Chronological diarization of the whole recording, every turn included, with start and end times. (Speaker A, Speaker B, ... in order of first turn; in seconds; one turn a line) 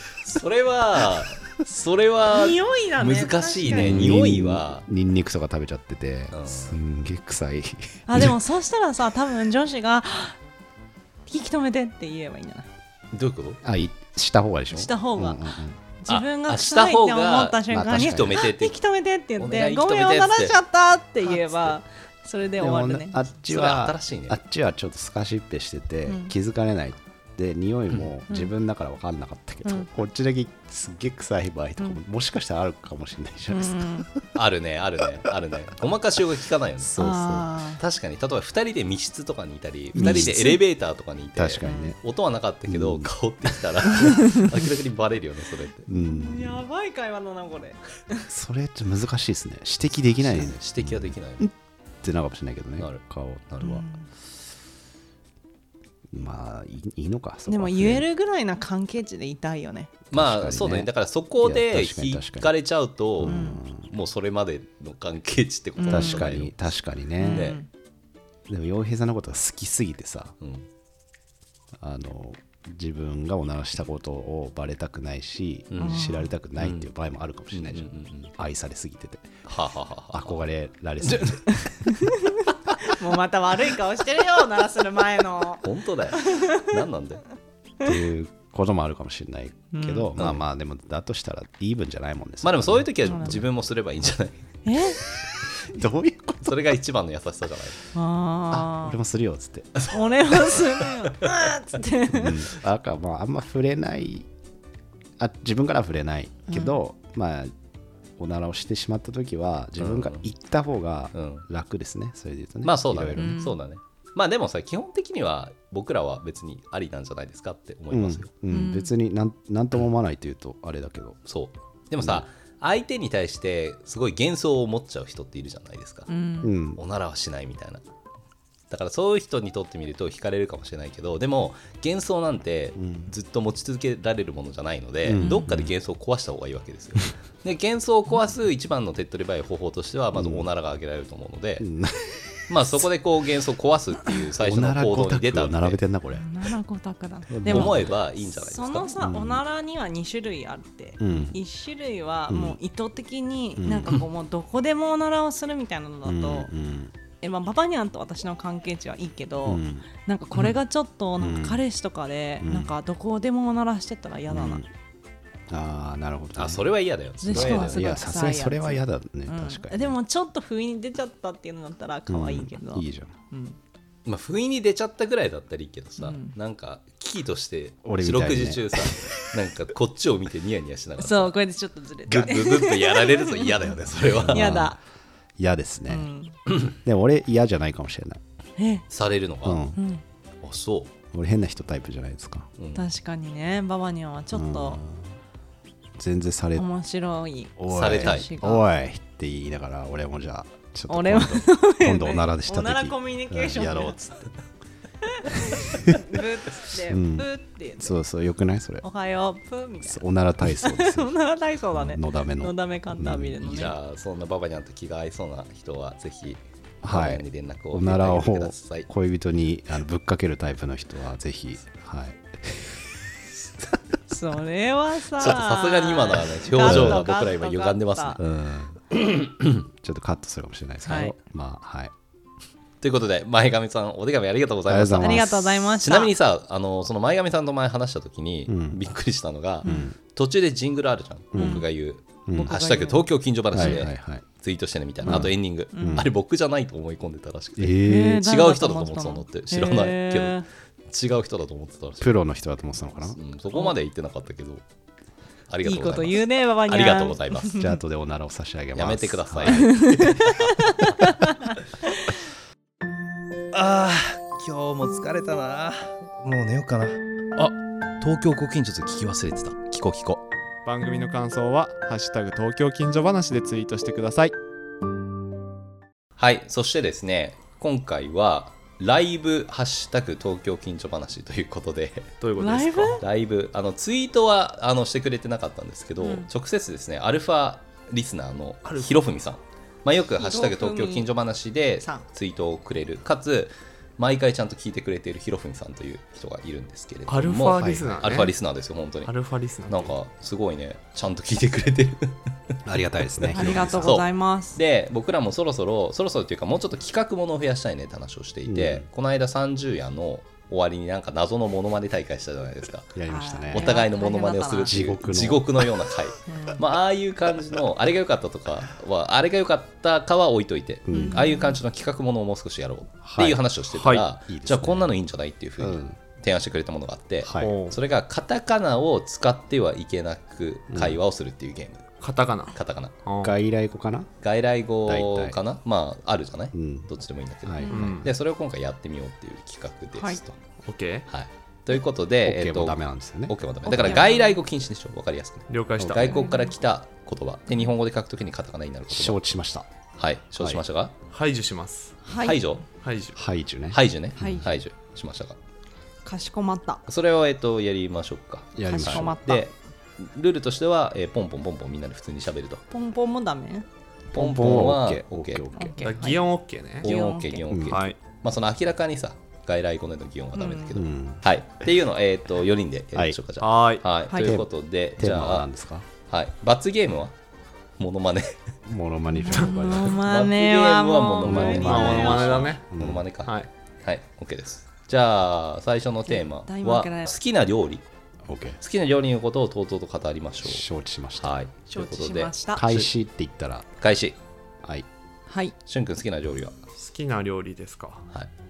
Speaker A: 0.2-4.8
Speaker B: 2.3-4.1
Speaker C: 3.7-8.3
Speaker A: 6.3-6.8
Speaker B: 8.1-10.4
Speaker B: 11.3-12.7
Speaker A: 13.1-13.6
Speaker C: 13.6-15.8
Speaker B: 14.7-15.4
Speaker B: 16.0-23.1
Speaker A: 16.1-18.8
Speaker C: 17.7-18.4
Speaker A: 19.4-20.6
Speaker A: 21.2-21.7
Speaker C: 22.6-34.2
Speaker A: 23.5-24.4
Speaker B: 26.1-26.3
Speaker B: 33.5-34.1
Speaker A: 34.3-37.0
Speaker C: 36.8-37.5
Speaker B: 37.0-37.8
Speaker A: 37.8-45.9
Speaker B: 39.9-40.6
Speaker C: 40.0-40.5
Speaker C: 41.4-42.0
Speaker B: 41.6-41.9
Speaker C: 42.7-43.1
Speaker C: 45.9-46.6
Speaker B: 45.9-48.2
Speaker C: 48.3-53.8
Speaker A: 50.1-51.5
Speaker A: 52.8-53.8
Speaker B: 53.6-54.1
Speaker C: 56.1-58.0
Speaker B: 57.5-59.9
Speaker C: 60.1-60.9
Speaker A: 60.1-66.6
Speaker C: 61.4-62.5
Speaker C: 63.2-63.9
Speaker B: 63.2-63.6
Speaker B: 65.8-66.2
Speaker C: 65.9-67.5
Speaker B: 67.2-67.7
Speaker A: 67.2-67.6
Speaker C: 68.5-70.3
Speaker A: 70.4-70.7
Speaker C: 71.8-79.4
Speaker A: 75.7-76.0
Speaker B: 75.8-76.3
Speaker A: 76.6-76.9
Speaker A: 77.5-78.3
Speaker A: 79.5-80.4
Speaker C: 80.1-81.5
Speaker A: 81.0-81.5
Speaker B: 81.7-85.6
Speaker A: 85.6-87.2
Speaker B: 86.1-86.7
Speaker C: 87.8-93.4
Speaker B: 89.7-90.1
Speaker A: 90.2-90.4
Speaker A: 92.4-94.4
Speaker B: 93.0-93.4
Speaker B: 94.7-95.0
Speaker C: 95.7-96.6
Speaker A: 96.4-97.8
Speaker B: 97.9-99.0
Speaker C: 98.5-99.8
Speaker B: 99.9-102.5
Speaker C: 102.1-104.3
Speaker C: 105.2-107.5
Speaker B: 106.5-106.8
Speaker C: 108.2-113.4
Speaker A: 109.8-110.2
Speaker A: 111.1-111.4
Speaker A: 112.6-118.3
Speaker B: 113.2-113.6
Speaker C: 117.9-121.2
Speaker B: 118.5-118.9
Speaker A: 121.3-126.1
Speaker B: 126.1-126.5
Speaker C: 126.4-126.8
Speaker A: 126.8-127.8
Speaker A: 128.7-141.7
Speaker C: 132.8-133.1
Speaker C: 135.0-135.7
Speaker B: 135.2-135.4
Speaker C: 140.1-140.5
Speaker C: 141.6-142.5
Speaker A: 142.5-145.8
Speaker C: 144.4-146.3
Speaker B: 146.1-156.5
Speaker C: 147.3-147.9
Speaker A: 147.4-148.9
Speaker C: 149.0-149.4
Speaker C: 151.0-151.4
Speaker C: 152.3-152.6
Speaker C: 153.6-154.0
Speaker C: 156.0-156.9
Speaker B: 157.2-164.6
Speaker C: 159.4-159.8
Speaker C: 161.2-161.6
Speaker C: 162.4-162.7
Speaker C: 164.3-164.7
Speaker C: 165.5-166.7
Speaker A: 166.4-167.9
Speaker B: 167.2-173.6
Speaker C: 167.3-169.9
Speaker C: 172.1-173.1
Speaker A: 174.1-181.4
Speaker B: 176.0-176.3
Speaker C: 177.8-179.0
Speaker B: 181.0-183.7
Speaker A: 182.1-184.6
Speaker C: 184.2-184.8
Speaker B: 184.3-184.8
Speaker C: 185.4-186.1
Speaker B: 185.9-186.4
Speaker C: 186.7-188.2
Speaker B: 188.6-188.8
Speaker A: 188.9-189.7
Speaker C: 189.4-189.8
Speaker B: 189.7-190.0
Speaker A: 190.4-190.9
Speaker C: 191.1-192.5
Speaker A: 192.6-192.9
Speaker B: 192.7-194.8
Speaker C: 194.3-195.1
Speaker C: 196.0-196.7
Speaker B: 196.6-198.6
Speaker C: 197.6-204.2
Speaker A: 197.7-198.3
Speaker B: 200.9-204.0
Speaker B: 205.1-207.9
Speaker C: 205.6-205.9
Speaker C: 206.9-207.3
Speaker C: 207.8-208.8
Speaker B: 208.8-213.8
Speaker C: 209.8-211.1
Speaker C: 211.7-213.6
Speaker A: 213.4-218.9
Speaker C: 216.8-222.8
Speaker B: 224.1-228.2
Speaker A: 225.2-228.2
Speaker C: 226.6-227.1
Speaker C: 228.2-228.8
Speaker A: 229.0-229.4
Speaker C: 229.6-231.9
Speaker B: 230.8-231.1
Speaker A: 232.8-252.1
Speaker C: 234.7-235.4
Speaker B: 235.0-236.1
Speaker C: 238.5-238.8
Speaker C: 239.6-239.9
Speaker C: 241.3-241.6
Speaker B: 241.4-241.7
Speaker C: 242.3-242.5
Speaker B: 242.3-243.8
Speaker C: 243.5-244.2
Speaker C: 245.0-246.1
Speaker B: 245.1-246.1
Speaker C: 247.6-248.2
Speaker B: 247.8-250.4
Speaker C: 252.0-253.2
Speaker A: 253.1-254.6
Speaker A: 255.5-257.7
Speaker B: 255.6-257.7
Speaker C: 257.6-259.7
Speaker A: 258.7-261.0
Speaker B: 259.5-261.5
Speaker A: 263.5-270.2
Speaker D: 270.6-274.3
Speaker A: 276.2-282.2
Speaker D: 282.2-283.0
Speaker B: 282.4-283.0
Speaker A: 283.0-299.1
Speaker B: 286.0-286.3
Speaker D: 288.6-288.9
Speaker B: 290.2-291.1
Speaker D: 297.1-298.3
Speaker C: 297.6-298.1
Speaker D: 299.0-299.9
Speaker A: 299.7-302.2
Speaker C: 302.6-304.0
Speaker A: 303.2-312.9
Speaker B: 303.3-304.6
Speaker C: 308.5-308.9
Speaker C: 312.9-313.8
Speaker B: 313.1-314.8
Speaker A: 313.5-331.9
Speaker C: 314.6-315.6
Speaker B: 316.3-316.6
Speaker C: 320.9-321.3
Speaker B: 320.9-321.6
Speaker C: 323.0-323.4
Speaker D: 323.7-324.0
Speaker C: 324.3-324.9
Speaker C: 325.6-326.0
Speaker C: 327.2-327.5
Speaker D: 327.4-327.8
Speaker C: 330.7-331.0
Speaker D: 332.0-333.4
Speaker A: 332.5-332.9
Speaker C: 333.2-334.1
Speaker A: 334.2-340.4
Speaker C: 334.9-335.4
Speaker C: 336.5-336.9
Speaker C: 337.4-338.1
Speaker B: 337.6-337.9
Speaker D: 337.7-338.1
Speaker D: 340.6-341.1
Speaker A: 341.1-349.2
Speaker C: 342.2-344.0
Speaker B: 343.6-344.4
Speaker D: 345.5-346.2
Speaker B: 346.0-346.5
Speaker C: 348.9-349.7
Speaker A: 350.0-350.9
Speaker D: 351.1-352.0
Speaker B: 352.0-352.4
Speaker A: 352.2-352.6
Speaker D: 352.8-353.2
Speaker C: 353.1-354.4
Speaker A: 353.7-355.4
Speaker B: 354.2-354.5
Speaker B: 356.0-356.8
Speaker A: 356.9-362.6
Speaker C: 358.6-359.2
Speaker B: 358.7-359.5
Speaker B: 362.7-363.6
Speaker A: 364.1-365.5
Speaker C: 364.1-365.8
Speaker B: 365.5-366.2
Speaker D: 365.8-366.9
Speaker B: 366.8-367.4
Speaker A: 366.8-375.5
Speaker C: 367.5-367.8
Speaker D: 367.7-368.0
Speaker B: 370.3-370.7
Speaker C: 370.7-371.2
Speaker D: 373.4-373.8
Speaker B: 374.1-374.3
Speaker C: 374.2-375.9
Speaker A: 376.1-377.1
Speaker A: 377.8-378.4
Speaker C: 378.7-380.0
Speaker B: 379.1-382.1
Speaker A: 379.7-387.8
Speaker C: 381.2-383.0
Speaker D: 381.6-382.6
Speaker B: 386.1-387.1
Speaker C: 388.2-388.6
Speaker A: 388.6-390.6
Speaker C: 390.4-391.3
Speaker A: 391.2-392.9
Speaker B: 391.7-392.6
Speaker C: 392.6-393.7
Speaker A: 393.8-394.2
Speaker B: 395.3-395.5
Speaker A: 395.6-396.6
Speaker D: 396.8-398.1